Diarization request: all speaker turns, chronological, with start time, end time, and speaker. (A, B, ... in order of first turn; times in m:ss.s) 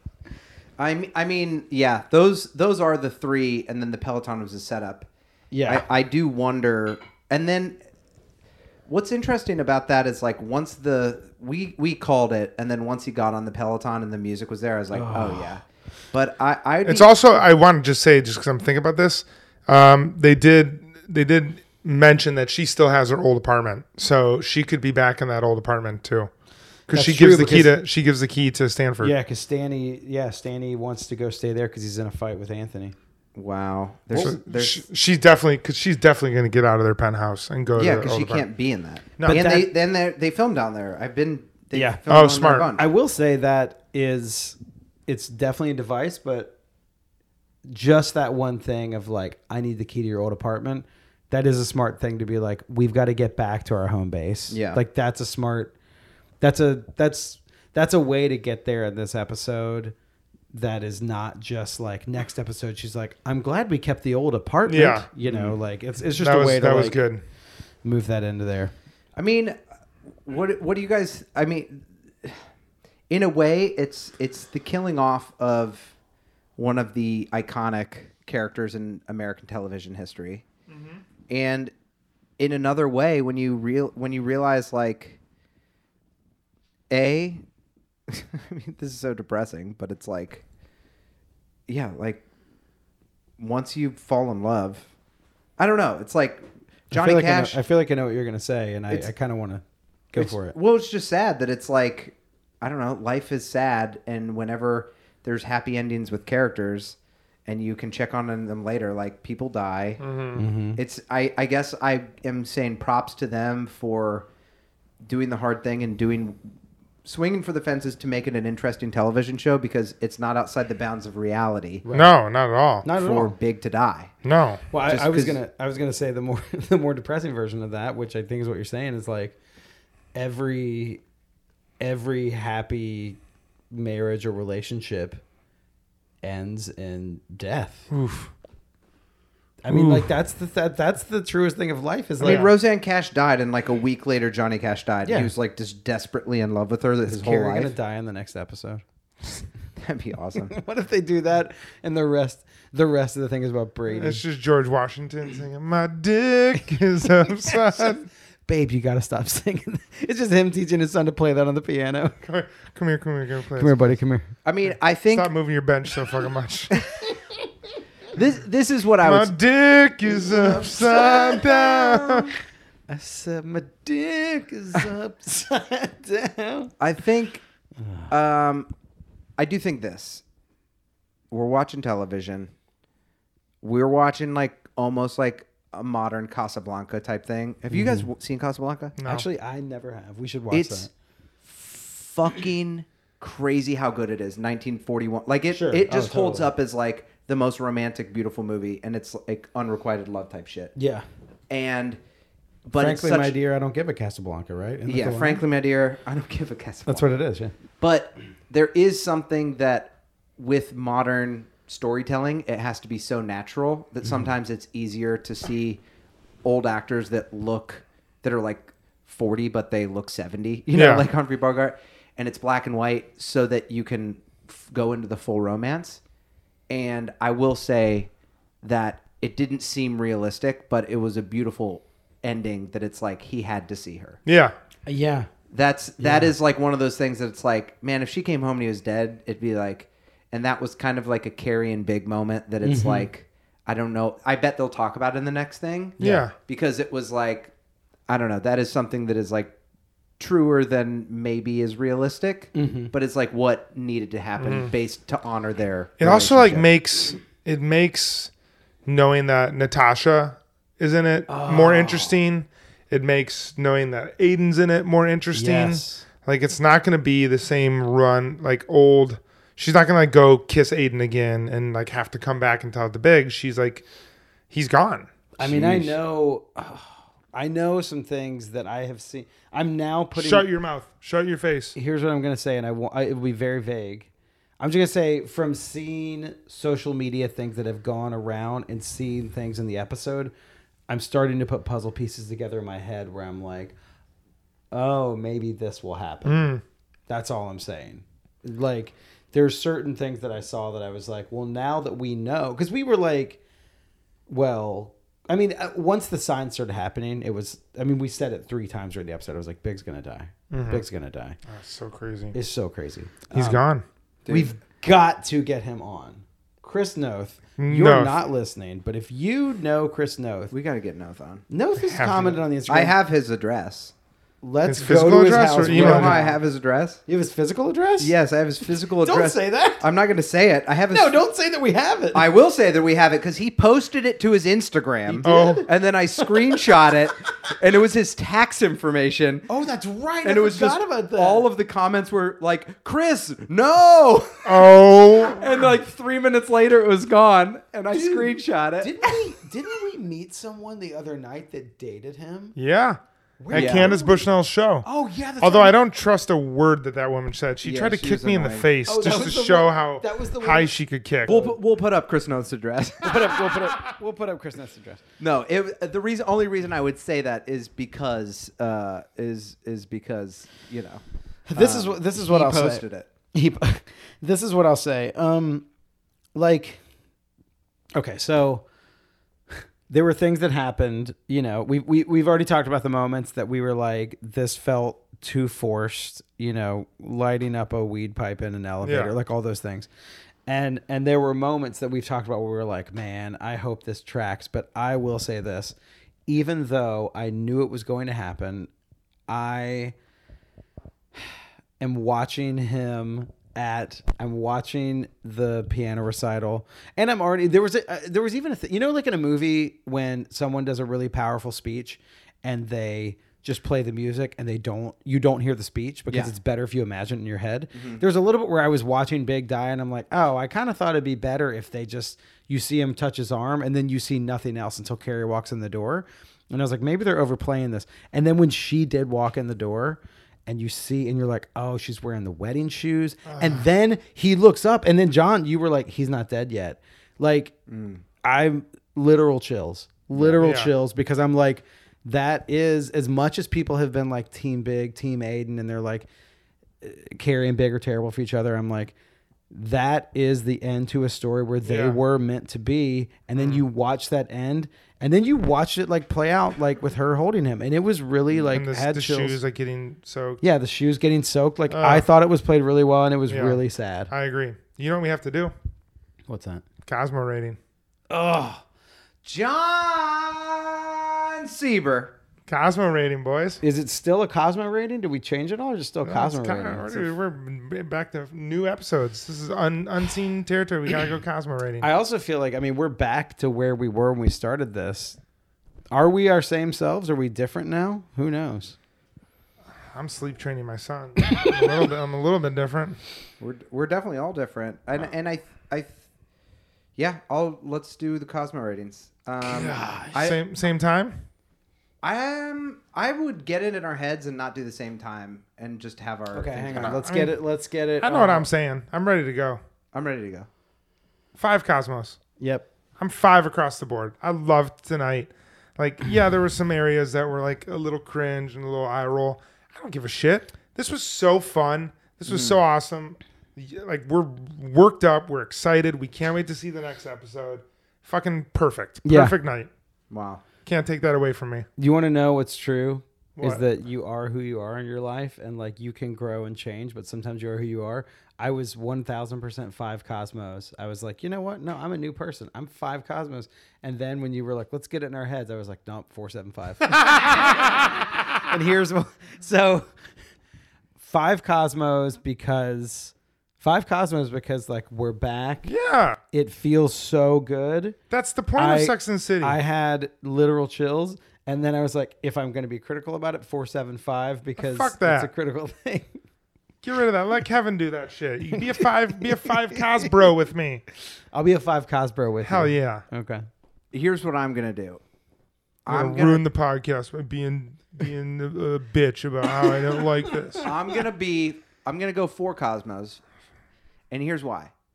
0:00.8-0:05.1 A
0:05.5-0:05.9 B
0:05.7-0:07.8 A
0:08.9-0:17.1 A
0:14.9-0:15.6 B
0:16.8-0:26.3 C
0:26.9-0:29.2 C
0:26.9-0:27.8 B
0:29.0-0:33.0 B
0:33.4-0:34.9 A
0:34.2-0:38.4 C
0:37.8-0:42.9 A
0:39.2-0:39.4 C
0:39.2-0:39.7 B
0:41.7-0:42.0 B
0:42.1-0:42.7 C
0:42.7-0:46.5 B
0:47.7-0:55.7 B
0:54.5-0:54.8 A
0:56.4-0:59.9 B
1:00.5-1:07.0 B
1:04.7-1:05.1 C
1:05.2-1:05.6 A
1:06.2-1:07.2 C
1:07.8-1:08.7 B
1:09.2-1:09.6 A
1:10.2-1:12.4 A
1:13.1-1:15.9 A
1:16.6-1:20.5 A
1:20.7-1:21.0 C
1:21.3-1:21.7 A
1:22.4-1:25.2 A
1:26.9-1:27.4 A
1:28.1-1:30.4 A
1:31.7-1:32.2 A
1:33.4-1:34.9 A
1:35.6-1:37.6 A
1:36.9-1:40.6 B
1:40.2-1:50.0 A
1:50.0-1:50.4 C
1:50.4-1:50.8 B
1:50.8-1:54.3 A
1:55.0-1:56.4 A
1:57.0-2:01.8 A
2:01.8-2:02.1 B
2:01.9-2:02.9 C
2:02.8-2:03.3 B
2:02.9-2:04.1 A
2:04.2-2:04.6 C
2:04.7-2:09.4 B
2:04.8-2:05.4 A
2:10.1-2:11.0 B
2:11.8-2:13.2 B
2:13.7-2:15.2 B
2:16.2-2:17.9 B
2:17.9-2:18.3 C
2:19.6-2:22.5 B
2:19.7-2:20.1 C
2:22.2-2:27.7 A
2:22.2-2:22.5 C
2:25.1-2:25.3 B
2:27.1-2:28.8 B
2:29.8-2:30.6 A
2:30.5-2:34.2 B
2:33.9-2:38.1 C
2:38.5-2:42.2 B
2:42.2-2:43.8 C
2:43.6-2:44.3 B
2:44.4-2:45.3 A
2:45.1-2:46.8 C
2:48.1-2:49.4 A
2:49.0-2:52.3 C
2:50.1-2:52.2 B
2:52.9-2:56.7 B
2:56.8-2:57.4 A
2:57.8-2:58.1 B
2:58.1-2:58.7 A
2:59.4-3:00.2 A
3:01.3-3:02.5 A
3:03.6-3:09.0 A
3:07.7-3:08.1 B
3:09.0-3:09.3 C
3:09.0-3:10.9 B
3:10.5-3:10.9 A
3:11.4-3:20.7 A
3:15.5-3:16.5 B
3:20.8-3:21.0 B
3:21.5-3:22.0 A
3:22.7-3:23.4 A
3:22.8-3:25.4 B
3:24.9-3:27.1 A
3:26.9-3:27.5 B
3:27.8-3:35.8 A
3:36.4-3:46.0 A
3:40.7-3:41.0 C
3:46.7-3:48.1 A
3:48.6-3:54.2 A
3:54.3-3:54.6 C
3:54.9-3:55.3 B
3:55.5-4:07.5 A
3:56.0-3:56.3 B
4:02.6-4:03.1 B
4:06.0-4:06.2 B
4:06.0-4:06.3 C
4:08.1-4:09.6 A
4:10.2-4:16.7 A
4:12.6-4:12.9 B
4:14.4-4:14.7 C
4:16.0-4:18.3 C
4:18.9-4:33.9 C
4:21.3-4:22.2 B
4:25.3-4:26.1 B
4:34.5-4:35.1 C
4:35.4-4:40.5 B
4:35.4-4:36.0 A
4:40.2-4:41.8 C
4:41.8-4:44.1 B
4:44.6-4:50.3 B
4:50.9-4:53.8 B
4:54.7-4:56.5 B
4:56.2-4:56.6 C
4:57.1-5:03.4 B
5:04.3-5:11.4 B
5:10.5-5:10.8 C
5:11.5-5:12.4 C
5:12.3-5:13.6 B
5:13.3-5:13.8 C
5:14.2-5:14.6 A
5:14.3-5:20.5 B
5:17.6-5:18.2 C
5:20.5-5:21.4 A
5:21.5-5:23.0 B
5:21.8-5:22.4 C
5:22.7-5:23.9 A
5:24.4-5:26.4 B
5:24.6-5:26.2 C
5:25.6-5:27.0 A
5:27.1-5:28.2 B
5:28.0-5:31.2 A
5:28.8-5:29.9 B
5:30.9-5:32.3 B
5:32.1-5:39.5 A
5:35.1-5:36.6 B
5:35.2-5:35.7 C
5:39.5-5:41.5 B
5:40.2-5:49.2 A
5:44.4-5:45.6 C
5:47.9-5:52.6 B
5:52.6-5:54.9 C
5:53.4-5:54.3 B
5:53.5-5:54.0 A
5:54.8-5:55.8 B
5:55.4-6:01.4 C
5:57.6-5:59.3 A
5:58.9-6:01.6 B
6:01.3-6:03.6 A
6:03.0-6:05.0 B
6:05.2-6:11.0 A
6:11.5-6:15.7 B
6:11.5-6:13.1 A
6:16.4-6:16.8 B
6:17.9-6:18.6 B
6:19.5-6:29.9 B
6:28.8-6:29.1 C
6:30.5-6:35.8 B
6:36.3-6:38.7 B
6:39.3-6:40.0 B
6:41.8-7:17.6 B
6:57.7-6:58.0 A
7:13.3-7:13.6 C
7:17.7-7:18.0 A
7:18.2-7:26.1 B
7:20.2-7:20.4 A
7:20.4-7:20.7 C
7:26.8-7:28.9 B
7:29.5-7:39.4 B
7:31.6-7:32.0 C
7:33.4-7:33.6 C
7:38.5-7:40.4 C
7:40.4-7:44.1 B
7:41.7-7:42.0 C
7:43.3-7:45.5 C
7:46.3-7:46.6 B
7:46.9-7:47.6 C
7:48.1-7:48.6 B
7:49.2-7:52.2 A
7:52.5-7:53.6 C
7:53.6-7:57.1 B
7:56.0-8:01.9 C
8:01.8-8:05.2 B
8:05.9-8:08.8 B
8:09.9-8:13.0 C
8:13.4-8:16.0 A
8:17.0-8:20.4 A
8:19.5-8:20.2 B
8:20.1-8:21.2 C
8:22.0-8:27.0 A
8:26.3-8:28.5 B
8:26.8-8:27.4 C
8:28.0-8:29.6 C
8:29.9-8:30.5 A
8:31.4-8:32.2 C
8:32.4-8:32.7 B
8:33.0-8:49.7 C
8:42.3-8:42.6 A
8:49.0-8:49.4 B
8:50.1-8:50.4 A
8:50.7-8:51.7 C
8:51.8-9:07.3 B
8:53.4-8:53.6 C
9:08.4-9:09.9 B
9:11.0-9:15.7 B
9:15.6-9:16.2 C
9:16.3-9:18.0 B
9:18.1-9:19.6 C
9:18.6-9:26.2 B
9:24.6-9:25.3 C
9:26.8-9:30.8 C
9:28.5-9:30.1 B
9:31.3-9:33.4 B
9:32.4-9:33.0 C
9:33.9-9:35.0 A
9:35.8-9:36.4 A
9:35.9-9:40.7 C
9:40.6-9:43.2 A
9:44.1-9:44.7 A